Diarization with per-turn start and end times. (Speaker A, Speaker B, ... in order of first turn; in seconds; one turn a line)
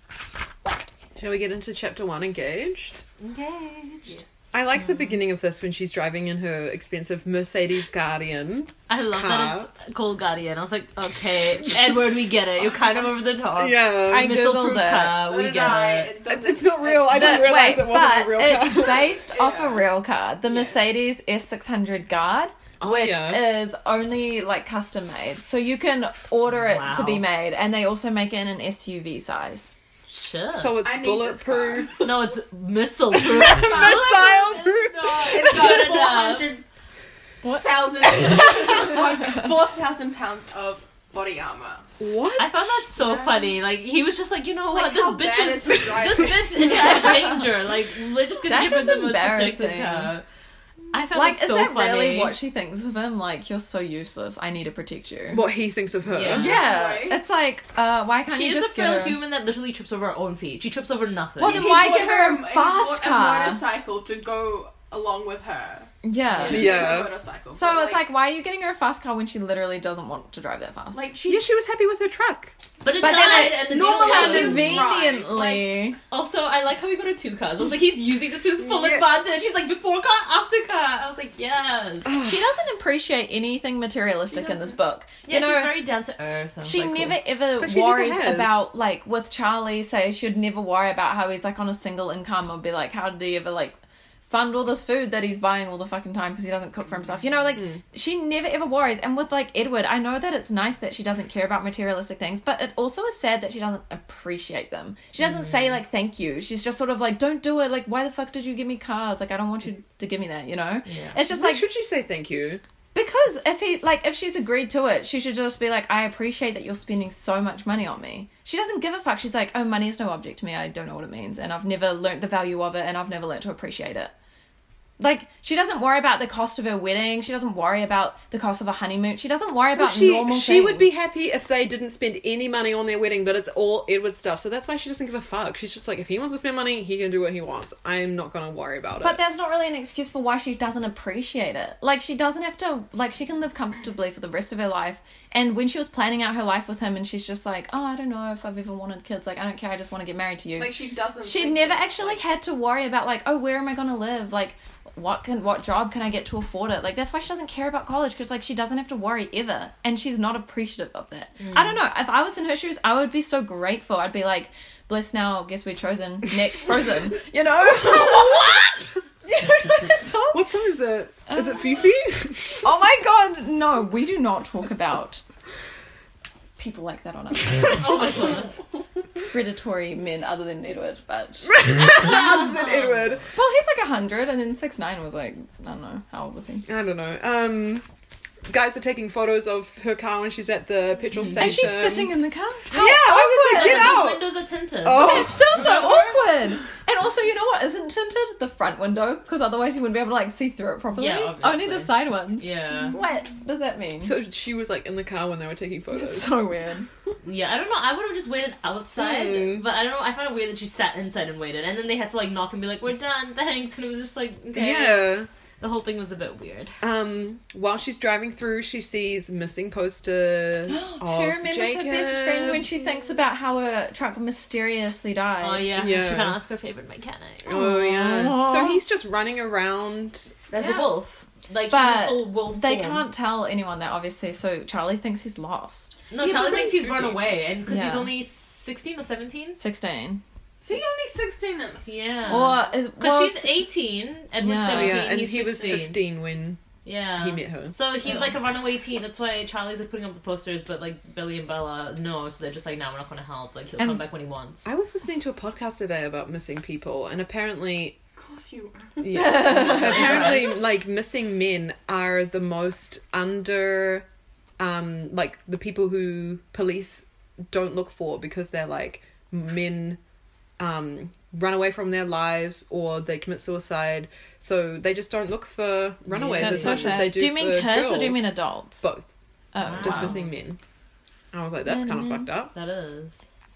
Speaker A: 1.2-3.0
Speaker B: 3.2-4.1
Speaker A: 4.5-9.7
Speaker B: 8.9-16.2
Speaker A: 13.5-14.6
Speaker C: 14.1-15.3
Speaker D: 15.2-17.7
Speaker A: 16.3-19.1
Speaker C: 17.0-29.7
Speaker D: 18.6-19.9
Speaker D: 20.4-20.8
Speaker A: 22.8-23.6
Speaker B: 26.5-27.3
Speaker B: 30.1-30.8
Speaker A: 30.5-32.1
Speaker D: 30.8-32.1
Speaker B: 32.0-36.5
Speaker A: 33.1-35.9
Speaker D: 33.3-36.6
Speaker C: 37.4-37.7
Speaker D: 37.5-41.9
Speaker A: 42.0-42.8
Speaker B: 42.4-50.2
Speaker D: 43.0-43.5
Speaker D: 44.7-47.2
Speaker C: 48.5-50.1
Speaker B: 50.9-52.4
Speaker C: 51.1-55.5
Speaker A: 55.3-56.6
Speaker B: 56.1-56.6
Speaker D: 56.3-57.2
Speaker C: 56.3-59.2
Speaker B: 58.3-61.9
Speaker C: 61.4-63.6
Speaker D: 61.4-68.0
Speaker C: 66.0-66.8
Speaker B: 66.4-66.8
Speaker A: 66.5-67.1
Speaker C: 67.5-71.1
Speaker D: 70.9-71.5
Speaker A: 71.3-72.5
Speaker B: 72.8-74.9
Speaker C: 73.0-76.0
Speaker D: 73.1-75.9
Speaker A: 73.9-74.9
Speaker B: 76.1-82.1
Speaker A: 78.6-79.1
Speaker A: 82.1-82.4
Speaker C: 82.2-85.7
Speaker D: 84.3-84.8
Speaker B: 85.2-87.2
Speaker C: 86.6-111.7
Speaker A: 87.6-88.6
Speaker B: 105.2-105.7
Speaker B: 110.8-111.2
Speaker A: 111.3-112.6
Speaker C: 112.9-124.1
Speaker C: 125.0-130.9
Speaker A: 129.8-139.2
Speaker C: 139.0-170.4
Speaker D: 150.6-152.2
Speaker B: 161.4-161.8
Speaker A: 170.3-172.7
Speaker C: 171.3-171.7
Speaker C: 172.6-175.2
Speaker C: 176.6-178.4
Speaker B: 177.7-178.5
Speaker C: 179.3-181.5
Speaker A: 181.5-183.2
Speaker B: 181.9-183.2
Speaker C: 183.3-186.7
Speaker A: 186.7-187.8
Speaker A: 188.5-192.1
Speaker B: 191.2-191.4
Speaker C: 191.3-194.1
Speaker A: 192.7-194.3
Speaker B: 193.5-195.9
Speaker A: 194.8-195.5
Speaker C: 194.9-204.2
Speaker B: 200.9-203.0
Speaker A: 204.0-206.4
Speaker C: 205.9-206.9
Speaker B: 207.2-216.8
Speaker A: 209.0-209.6
Speaker A: 214.5-215.3
Speaker A: 216.8-222.7
Speaker C: 220.7-225.7
Speaker B: 225.4-227.5
Speaker A: 225.8-226.4
Speaker A: 227.4-230.3
Speaker C: 227.5-228.8
Speaker B: 230.5-233.0
Speaker D: 230.6-230.9
Speaker C: 231.7-235.9
Speaker B: 236.1-239.6
Speaker A: 236.2-237.2
Speaker C: 237.7-238.2
Speaker C: 239.6-240.2
Speaker D: 240.6-241.9
Speaker B: 241.9-246.0
Speaker C: 242.3-243.6
Speaker C: 244.4-245.0
Speaker A: 244.7-246.6
Speaker D: 245.5-245.8
Speaker B: 246.8-254.7
Speaker A: 247.2-247.8
Speaker A: 254.6-258.0
Speaker D: 258.1-260.2
Speaker A: 259.0-264.1
Speaker C: 259.1-260.3
Speaker B: 259.6-260.6
Speaker A: 264.6-270.0
Speaker A: 270.6-279.1
Speaker B: 276.1-277.1
Speaker C: 276.4-278.9
Speaker C: 279.5-280.2
Speaker B: 279.6-280.3
Speaker A: 279.8-280.6
Speaker A: 281.3-282.5
Speaker C: 281.6-282.3
Speaker B: 282.5-283.2